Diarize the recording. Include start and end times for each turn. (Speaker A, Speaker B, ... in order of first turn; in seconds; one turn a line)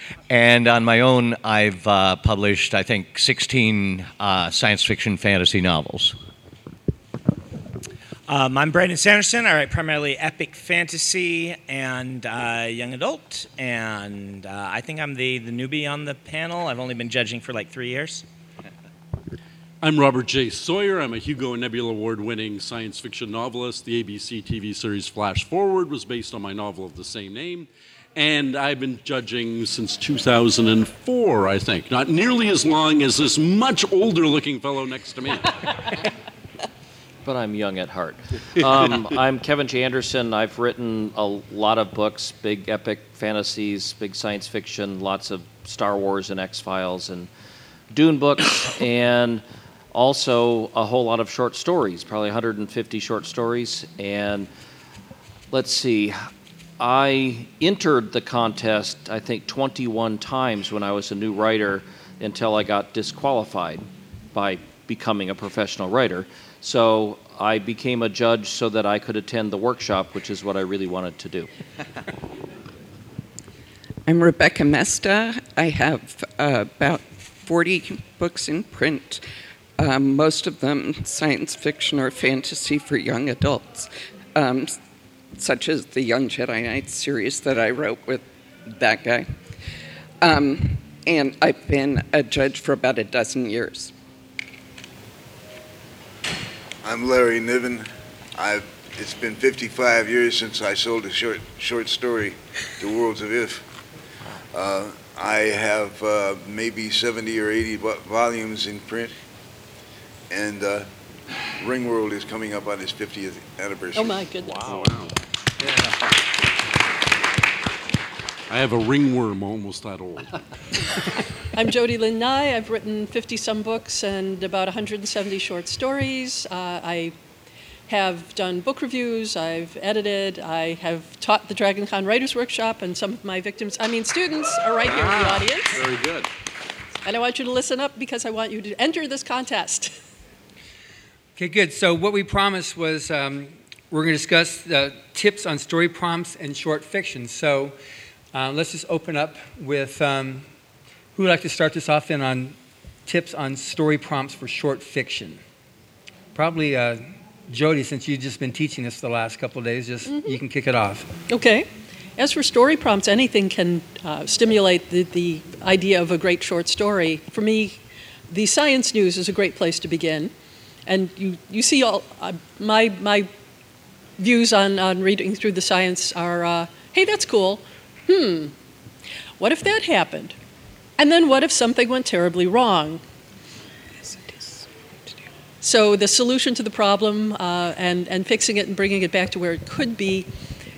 Speaker A: 0.3-6.2
Speaker B: 8.3-18.2
Speaker C: 19.8-36.0
Speaker D: 37.2-47.3
Speaker D: 47.9-54.5
Speaker D: 55.5-56.3
Speaker D: 56.8-71.5
Speaker E: 74.1-79.2
Speaker E: 79.8-84.8
Speaker E: 85.3-89.4
Speaker E: 90.2-93.9
Speaker F: 96.8-103.7
Speaker F: 104.5-109.1
Speaker F: 110.3-110.9
Speaker F: 111.5-114.3
Speaker G: 114.0-115.0
Speaker C: 114.7-115.1
Speaker C: 118.5-120.4
Speaker G: 121.5-127.2
Speaker G: 127.9-135.9
Speaker C: 134.8-136.3
Speaker G: 137.0-139.9
Speaker H: 141.4-147.8
Speaker H: 148.3-150.5
Speaker H: 151.2-155.4
Speaker H: 156.3-161.1
Speaker G: 160.1-160.4
Speaker G: 161.3-170.3
Speaker G: 170.9-173.3
Speaker G: 174.2-178.5
Speaker G: 179.4-180.4
Speaker G: 181.0-183.0
Speaker E: 184.0-184.7
Speaker G: 185.6-190.3